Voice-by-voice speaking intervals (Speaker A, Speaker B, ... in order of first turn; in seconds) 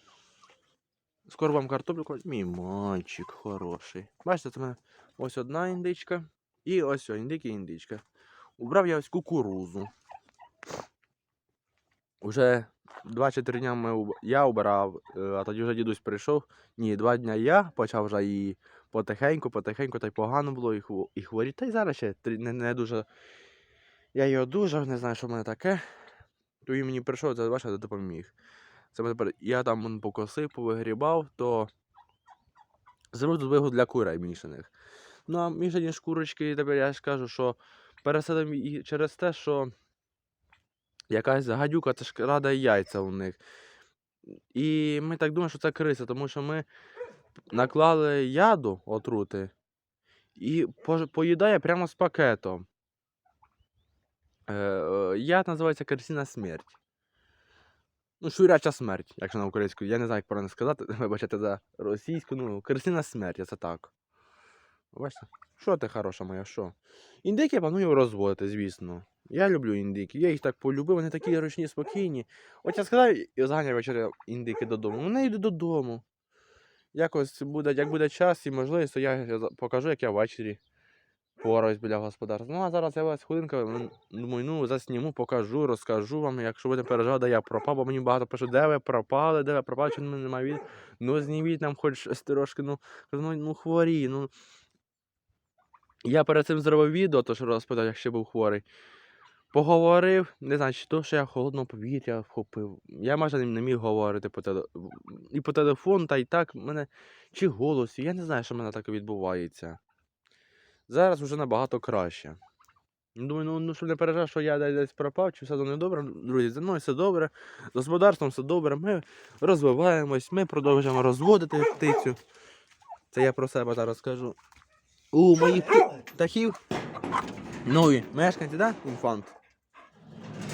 Speaker A: 1.3-8.0, 8.6-9.9, 12.2-23.1, 24.1-25.8, 26.6-28.3, 28.9-31.7, 33.1-34.7, 35.3-39.7, 41.1-43.4, 44.5-46.7, 47.5-49.5, 50.4-52.7, 54.5-56.8, 58.2-63.9, 64.9-76.0, 76.9-80.6, 81.4-94.3, 96.0-98.6, 99.5-109.8, 110.9-112.4, 113.1-122.2, 123.1-124.4, 125.1-126.6, 127.6-129.3